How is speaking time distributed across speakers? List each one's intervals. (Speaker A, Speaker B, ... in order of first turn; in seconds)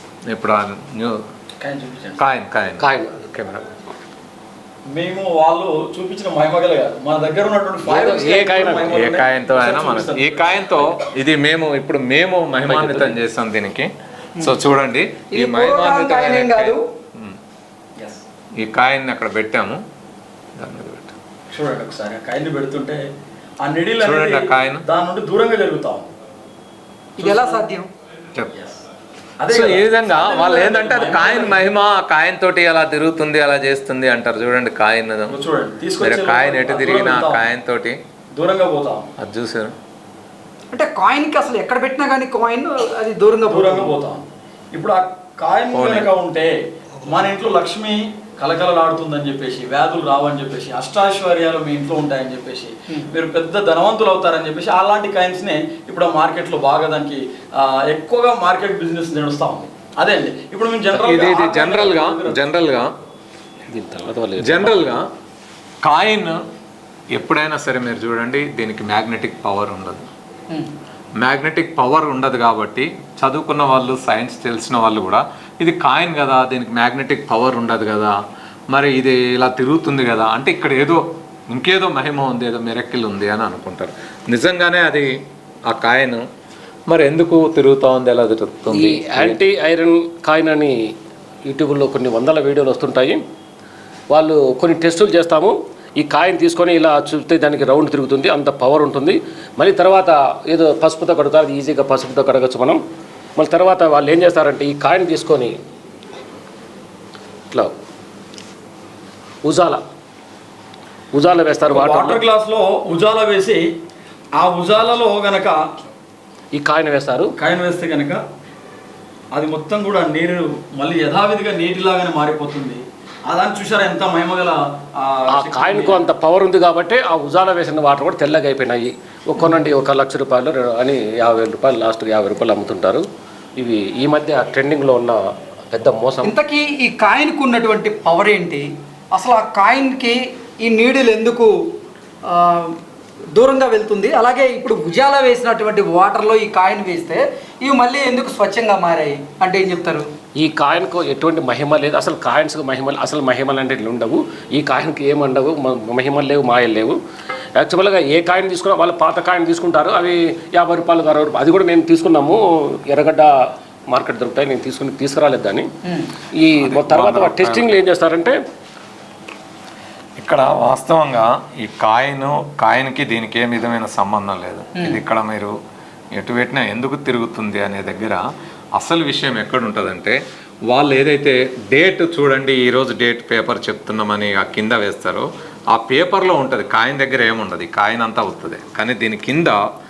Speaker A: 0.3-1.1, 2.2-3.6, 8.9-13.9, 14.4-17.4, 18.6-19.8, 20.6-21.1, 24.0-24.8, 29.5-35.3, 36.0-38.0, 39.2-39.7, 45.7-46.1, 60.9-62.9, 64.4-65.0, 65.8-66.3, 67.1-70.1, 71.2-78.2, 78.7-85.1, 85.7-86.2, 86.9-89.4, 166.6-167.8, 170.2-175.5, 176.1-178.2, 178.8-180.2, 180.7-189.6
Speaker B: 1.6-2.2, 4.9-10.8, 21.5-23.0, 23.6-26.1, 27.2-27.6, 29.4-31.6, 35.3-37.4, 38.3-39.1, 43.5-62.4, 111.7-113.7, 114.3-115.6, 117.4-118.2, 119.3-126.0
Speaker C: 2.8-3.1, 7.8-9.0, 12.7-13.2, 63.7-64.8, 88.7-90.7, 91.5-93.2, 94.1-102.8, 103.3-105.5, 109.4-109.8, 111.1-112.2, 116.5-117.3, 125.3-133.1, 133.6-136.3, 150.4-157.0, 157.6-163.3, 163.9-165.7, 166.3-168.3
Speaker D: 15.3-16.8, 27.2-27.9, 40.7-43.9, 136.2-141.5, 142.3-142.8, 143.3-150.1, 165.8-166.1, 174.8-175.0